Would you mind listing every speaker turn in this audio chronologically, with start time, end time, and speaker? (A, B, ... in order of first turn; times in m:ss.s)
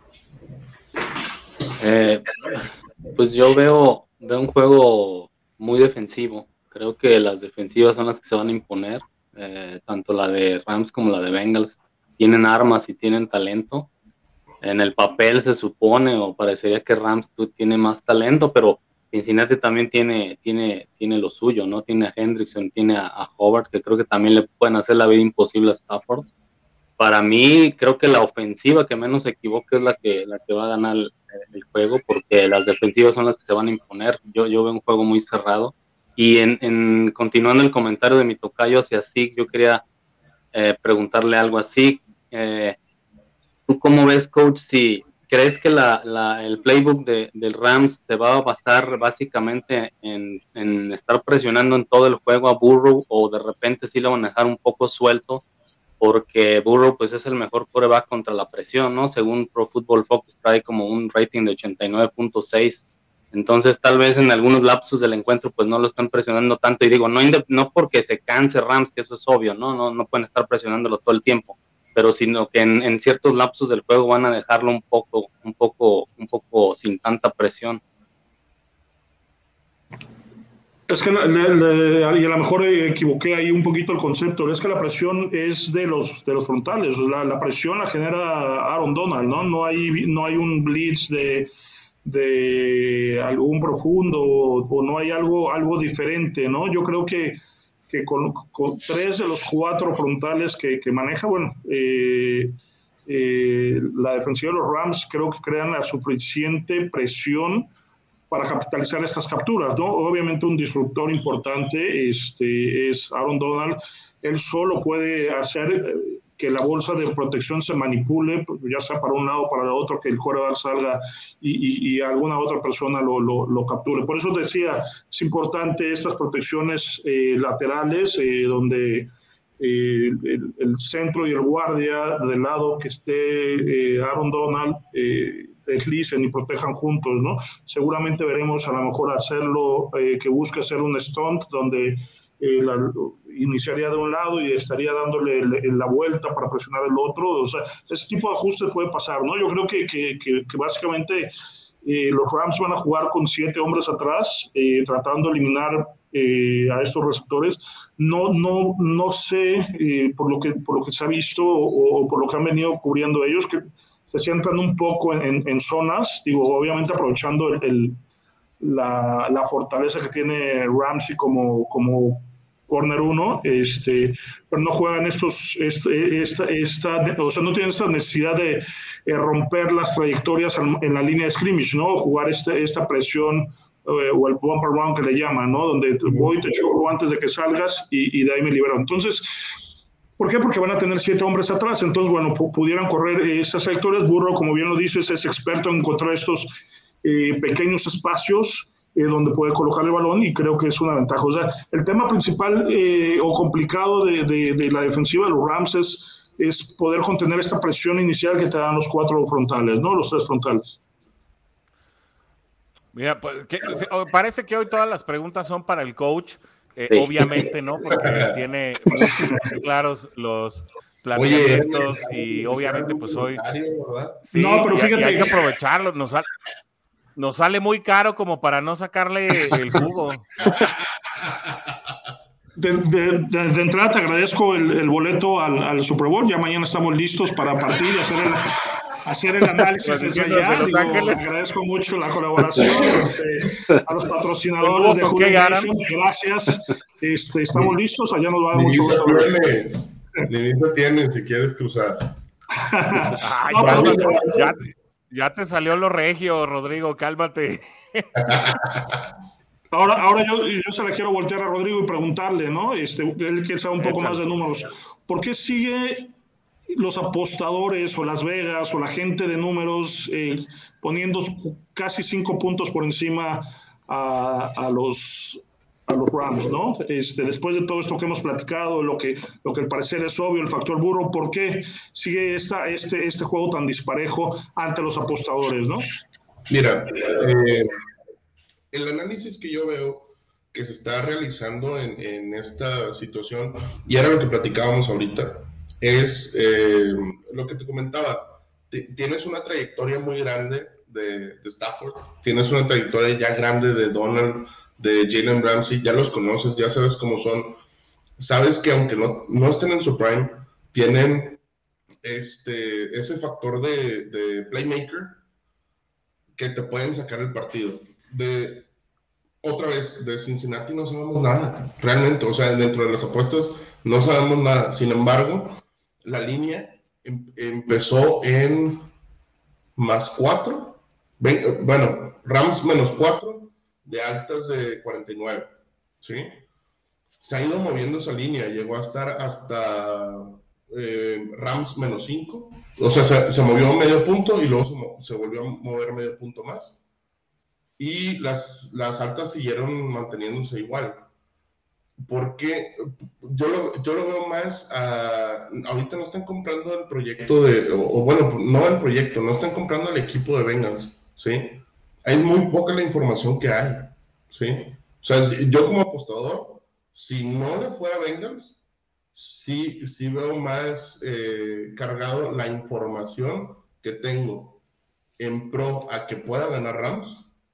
0:01.8-0:13.9 A
0:14.6-0:26.3 A
0:27.0-0:39.8 A
0:40.5-0:42.8 A
0:43.7-0:55.4 A
0:56.0-1:17.8 A
1:20.9-1:31.5 B
1:32.0-1:37.4 B
1:37.9-1:47.7 B
1:48.3-2:09.1 B
2:09.6-2:31.3 B
2:31.8-2:48.0 B
2:48.6-3:09.3 B
3:10.2-3:30.8 B
3:32.9-3:43.4 C
3:37.9-3:38.4 D
3:39.0-3:39.2 B
3:41.2-3:44.3 D
3:44.3-3:46.3 C
3:44.3-3:45.4 B
3:47.2-3:50.3 C
3:50.6-3:51.6 D
3:52.6-4:09.4 B
3:59.8-4:01.3 C
4:04.6-4:05.8 C
4:08.5-4:12.2 D
4:12.6-4:14.3 B
4:13.0-4:14.6 D
4:13.2-4:18.4 C
4:18.2-4:19.0 D
4:19.7-4:26.1 B
4:23.8-4:24.2 C
4:26.7-4:45.9 B
4:46.5-4:47.7 D
4:48.7-5:07.6 D
5:08.2-5:11.4 D
5:12.0-5:15.2 D
5:16.4-5:18.7 D
5:19.4-5:28.9 D
5:29.8-5:36.4 D
5:37.2-5:46.8 D
5:47.8-5:51.1 D
5:52.0-6:08.6 D
6:09.2-6:14.6 D
6:15.2-6:17.3 D